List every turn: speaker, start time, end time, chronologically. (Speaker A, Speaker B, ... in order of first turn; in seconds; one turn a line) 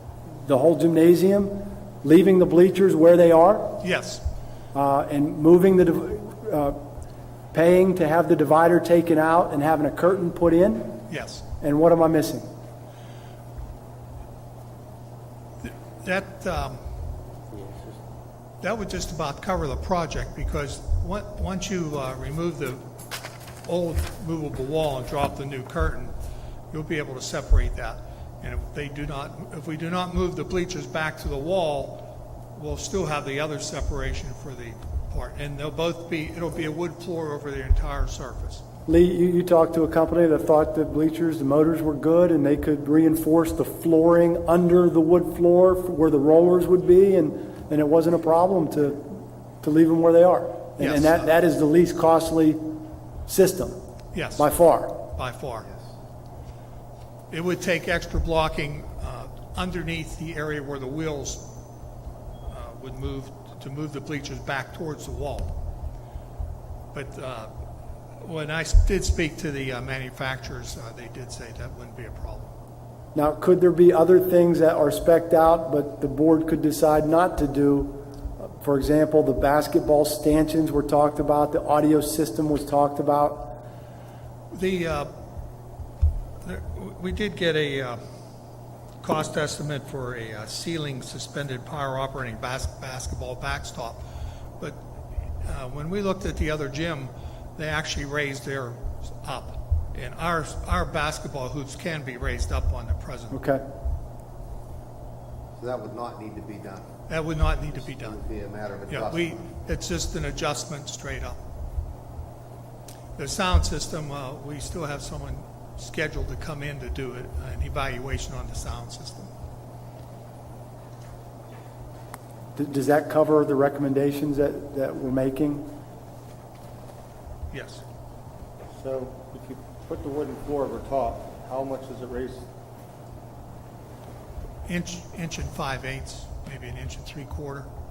Speaker A: 0.3-3.8
Speaker B: 3.8-4.2
Speaker A: 4.7-6.8
Speaker A: 7.5-11.0
Speaker B: 11.1-11.4
Speaker A: 11.6-12.5
Speaker B: 15.6-16.8
Speaker C: 17.6-18.0
Speaker B: 18.6-22.9
Speaker B: 23.6-26.1
Speaker B: 26.7-38.6
Speaker A: 38.9-52.6
Speaker B: 50.8-51.3
Speaker A: 53.3-53.8
Speaker B: 54.1-55.7
Speaker A: 54.4-55.0
Speaker B: 57.3-61.5
Speaker B: 62.5-65.6
Speaker B: 66.9-67.5
Speaker B: 68.2-72.5
Speaker A: 73.2-83.6
Speaker B: 84.5-85.1
Speaker B: 86.5-88.0
Speaker B: 89.0-94.0
Speaker B: 95.4-103.4
Speaker A: 103.3-103.6
Speaker C: 105.6-106.9
Speaker B: 107.1-108.2
Speaker C: 107.9-109.4
Speaker B: 108.9-111.4
Speaker B: 113.2-119.3
Speaker A: 122.6-125.7
Speaker B: 127.5-127.8
Speaker D: 128.7-132.5
Speaker B: 134.7-137.7